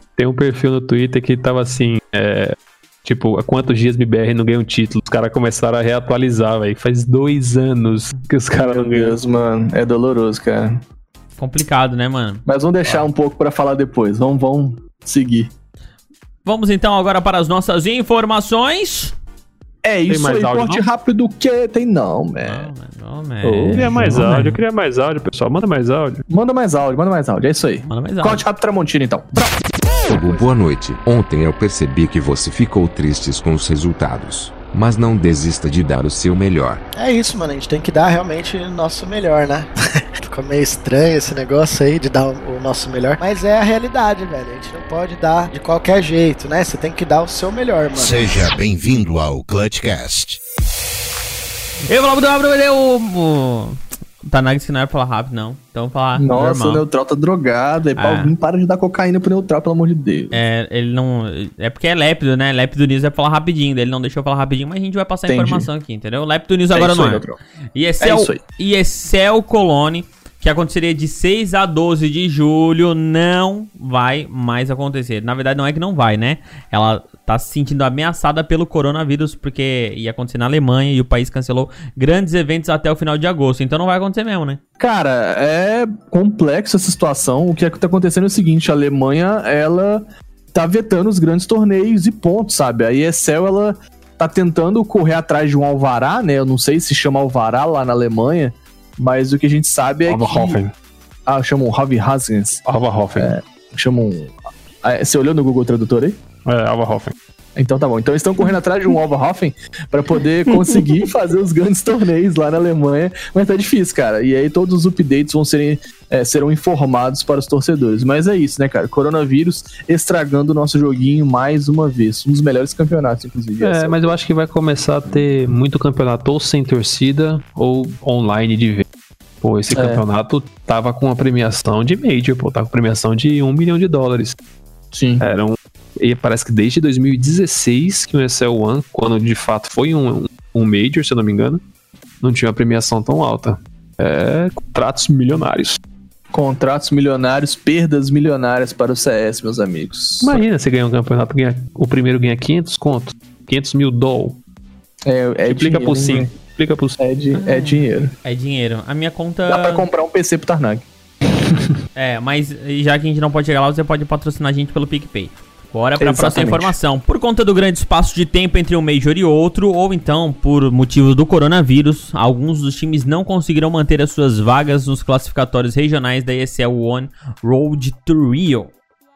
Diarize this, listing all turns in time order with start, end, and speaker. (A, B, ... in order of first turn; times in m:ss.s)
0:00.2-0:09.2 A
0:08.6-0:10.8 B
0:11.4-0:13.1 C
0:12.4-0:15.5 B
0:16.4-0:19.2 C
0:19.8-0:22.7 B
0:20.1-0:20.8 A
0:22.4-0:24.6 C
0:23.4-0:26.2 A
0:26.3-0:29.6 B
0:27.8-0:28.4 C
0:30.1-0:36.8 D
0:30.2-0:30.5 E
0:36.9-0:39.7 E
0:40.2-0:48.3 E
0:48.0-0:50.4 F
0:51.9-0:56.8 C
0:56.2-1:00.3 B
0:58.0-0:58.3 C
1:00.3-1:07.2 C
1:05.3-1:05.7 B
1:06.7-1:07.4 B
1:07.7-1:24.6 C
1:08.0-1:08.4 B
1:24.8-1:40.6 B
1:40.1-1:40.7 A
1:41.3-1:42.6 B
1:42.6-1:43.3 A
1:43.2-1:46.2 B
1:46.4-1:47.1 A
1:47.6-2:04.0 B
2:03.6-2:08.8 A
2:09.4-2:14.4 A
2:09.7-2:10.0 B
2:14.9-2:15.2 B
2:15.2-2:21.6 A
2:22.2-2:25.8 A
2:26.3-2:30.4 B
2:30.2-2:34.4 A
2:35.0-2:36.3 B
2:35.4-2:37.0 A
2:37.0-2:38.1 B
2:37.3-2:39.8 C
2:39.5-2:40.8 B
2:42.0-2:58.7 C
2:46.0-2:46.7 B